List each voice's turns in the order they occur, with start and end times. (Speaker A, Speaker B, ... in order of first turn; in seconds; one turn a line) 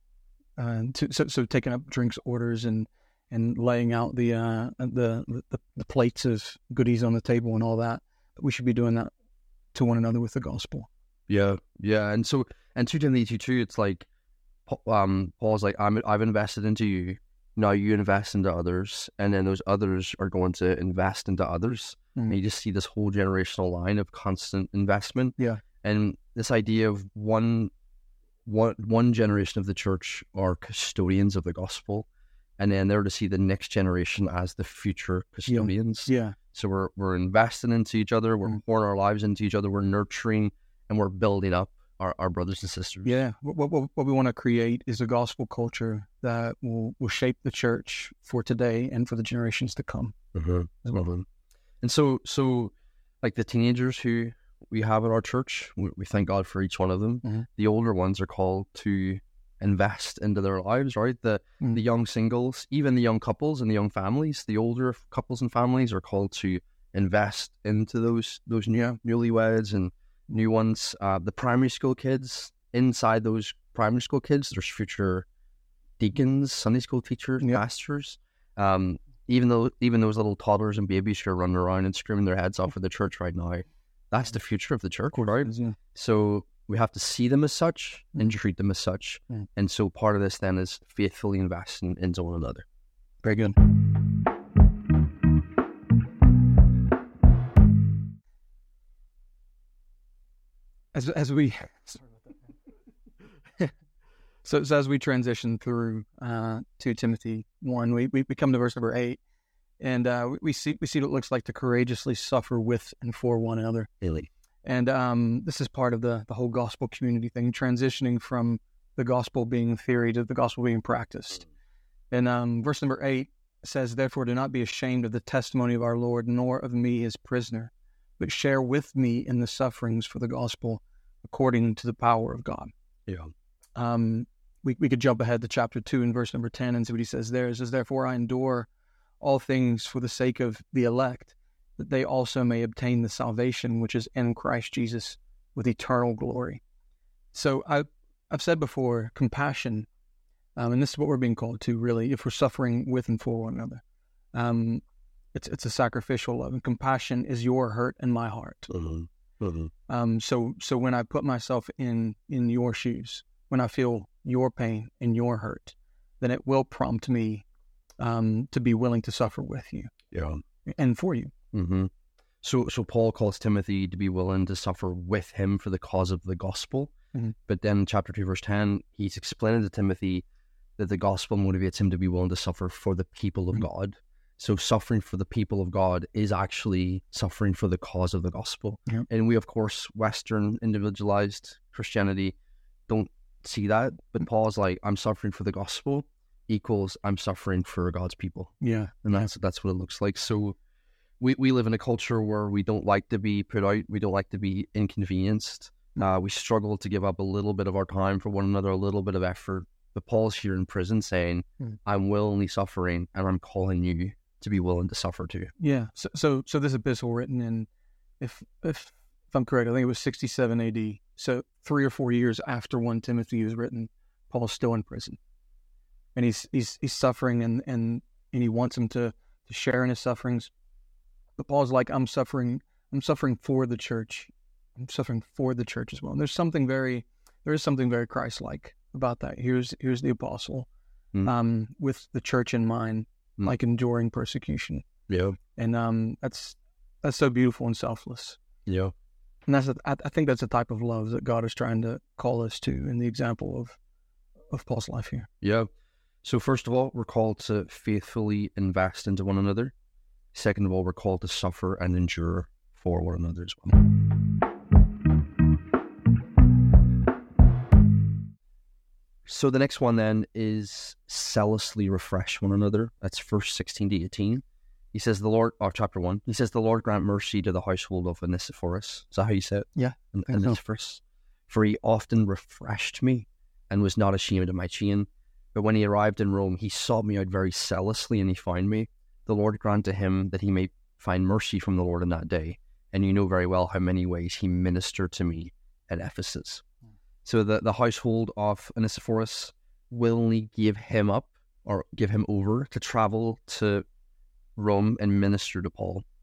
Speaker A: 0.6-9.1
Speaker A: 9.7-10.9
Speaker B: 11.3-14.1
Speaker B: 14.7-27.7
Speaker B: 28.4-32.1
Speaker B: 32.6-43.2
Speaker A: 35.5-36.4
Speaker A: 43.0-50.1
Speaker B: 50.3-51.3
Speaker B: 51.8-75.3
Speaker A: 68.7-69.0
Speaker B: 76.0-92.6
Speaker A: 85.2-85.8
Speaker A: 93.2-93.6
Speaker A: 100.9-102.3
Speaker A: 104.4-109.2
Speaker A: 109.8-113.9
Speaker B: 114.0-114.3
Speaker A: 114.6-121.5
Speaker A: 122.1-132.7
Speaker B: 133.1-133.3
Speaker A: 133.8-138.7
Speaker A: 139.2-146.6
Speaker A: 147.3-149.9
Speaker A: 150.6-153.8
Speaker A: 154.3-154.8
Speaker A: 155.3-158.7
Speaker B: 158.7-159.7
Speaker A: 159.9-167.4
Speaker A: 168.0-169.9
Speaker B: 170.1-170.4
Speaker A: 170.7-171.3
Speaker B: 171.5-171.9
Speaker B: 172.4-176.9
Speaker B: 177.5-180.2
Speaker B: 180.8-192.3
Speaker B: 192.9-200.6
Speaker A: 198.6-199.3
Speaker B: 201.2-215.5
Speaker A: 215.6-217.7
Speaker A: 218.2-225.2
Speaker A: 226.1-230.5
Speaker A: 231.4-240.7
Speaker A: 241.2-244.9
Speaker B: 245.1-245.4
Speaker A: 245.6-248.4
Speaker B: 248.7-248.9
Speaker A: 249.5-253.8
Speaker A: 254.5-255.3
Speaker B: 255.4-255.7
Speaker B: 256.2-259.7
Speaker B: 260.3-263.8
Speaker B: 269.2-296.6
Speaker A: 279.8-280.6
Speaker B: 297.2-303.9
Speaker B: 304.6-306.0